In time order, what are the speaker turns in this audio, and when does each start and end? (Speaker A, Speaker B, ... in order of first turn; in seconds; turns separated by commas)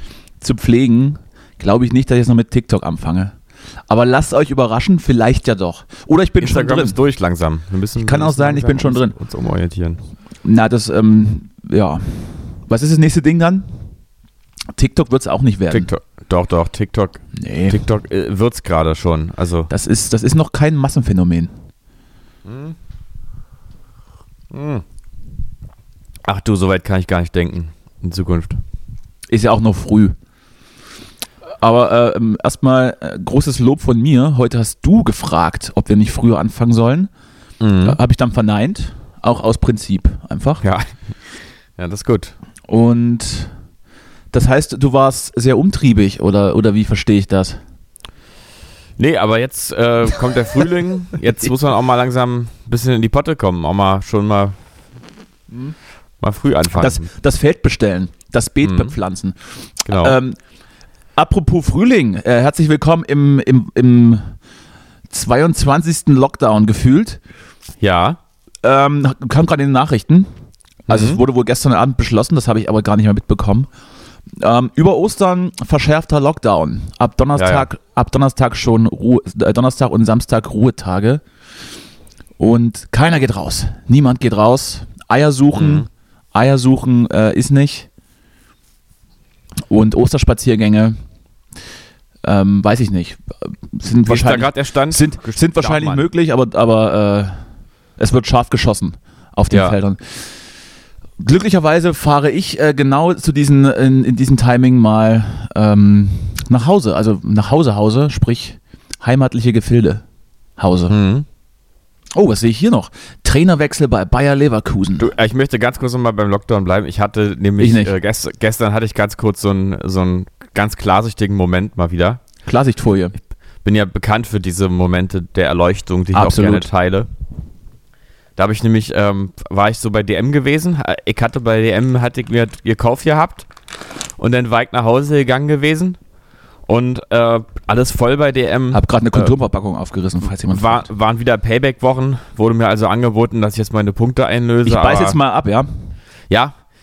Speaker A: 0.4-3.4, Speaker A: 3.9-7.0, Speaker B: 6.4-10.0, Speaker A: 8.0-9.2, Speaker A: 10.4-13.7, Speaker A: 14.8-15.9, Speaker B: 15.7-19.7, Speaker A: 17.4-17.8, Speaker A: 19.7-21.5, Speaker B: 22.4-22.8, Speaker B: 24.5-24.8, Speaker B: 26.3-28.6, Speaker A: 29.3-30.2, Speaker A: 31.6-37.1, Speaker B: 37.6-38.0, Speaker A: 37.8-40.6, Speaker B: 41.8-42.4, Speaker A: 42.7-43.5, Speaker A: 44.3-47.6, Speaker B: 49.0-54.6, Speaker B: 56.2-57.1, Speaker A: 56.7-59.4, Speaker B: 58.6-58.9, Speaker B: 59.9-60.2, Speaker A: 59.9-60.4, Speaker A: 61.2-64.3, Speaker A: 65.1-67.2, Speaker B: 67.8-68.2, Speaker A: 68.6-70.3, Speaker B: 70.9-71.2, Speaker A: 70.9-73.7, Speaker A: 74.4-81.2, Speaker B: 77.4-77.7, Speaker A: 82.4-87.9, Speaker B: 85.5-85.9, Speaker A: 89.7-91.0, Speaker A: 92.2-97.4, Speaker B: 94.1-96.1, Speaker A: 98.0-100.2, Speaker B: 99.5-99.8, Speaker A: 101.2-110.0, Speaker A: 110.6-110.9, Speaker B: 110.9-111.3, Speaker A: 112.2-115.1, Speaker B: 115.0-122.2, Speaker A: 117.6-117.9, Speaker A: 122.5-123.2, Speaker B: 123.6-127.1, Speaker A: 126.1-126.7, Speaker B: 128.4-133.5, Speaker B: 134.2-136.0, Speaker B: 136.7-139.3, Speaker A: 138.7-140.9, Speaker B: 140.5-145.2, Speaker A: 144.7-145.7, Speaker B: 146.3-146.5